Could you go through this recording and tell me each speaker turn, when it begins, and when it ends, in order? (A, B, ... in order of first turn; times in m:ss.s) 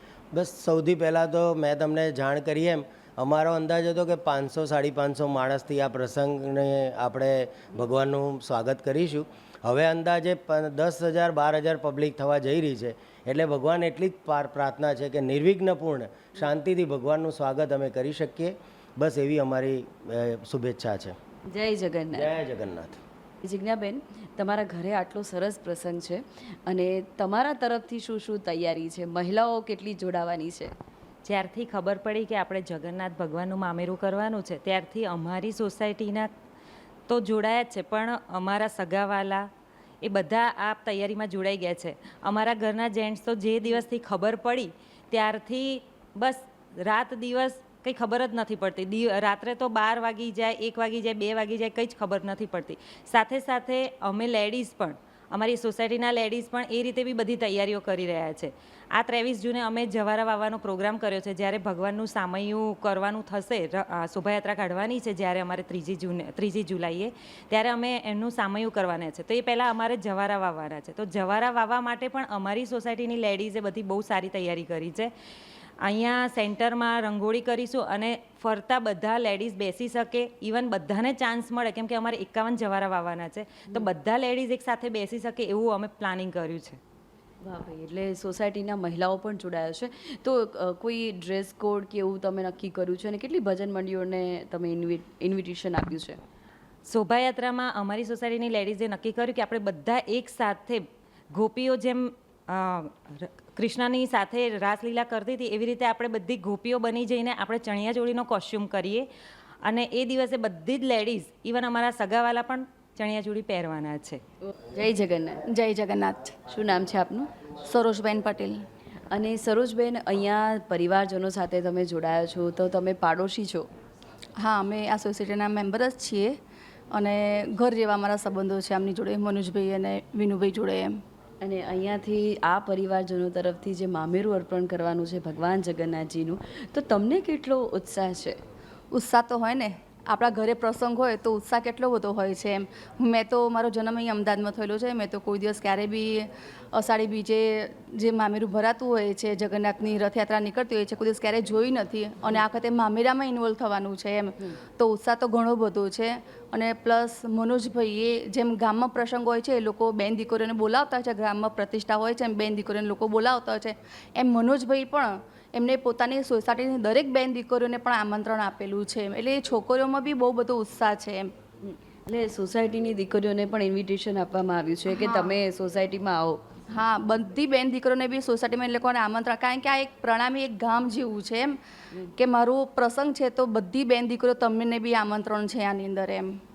0:00.3-0:21.2 A
0:21.5-0:22.3 B
0:22.1-0:23.0 A
0:23.4-0:30.7 B
0:31.3-0:36.3 C
0:37.1-0:39.5 C
0:40.0-1:15.1 C
1:15.8-1:26.8 C
1:27.4-1:36.2 B
1:36.9-1:49.1 C
1:49.6-1:54.2 C
1:54.6-1:55.4 B
1:55.5-1:56.4 D
1:56.4-1:57.3 B
1:57.6-1:58.6 D
1:59.1-2:03.7 B
2:04.4-2:06.4 D
2:06.9-2:11.0 D
2:11.4-2:18.4 B
2:18.9-2:51.3 D
2:51.6-2:56.4 B
2:54.9-2:55.3 D
2:56.8-3:01.6 D
3:02.2-3:06.4 D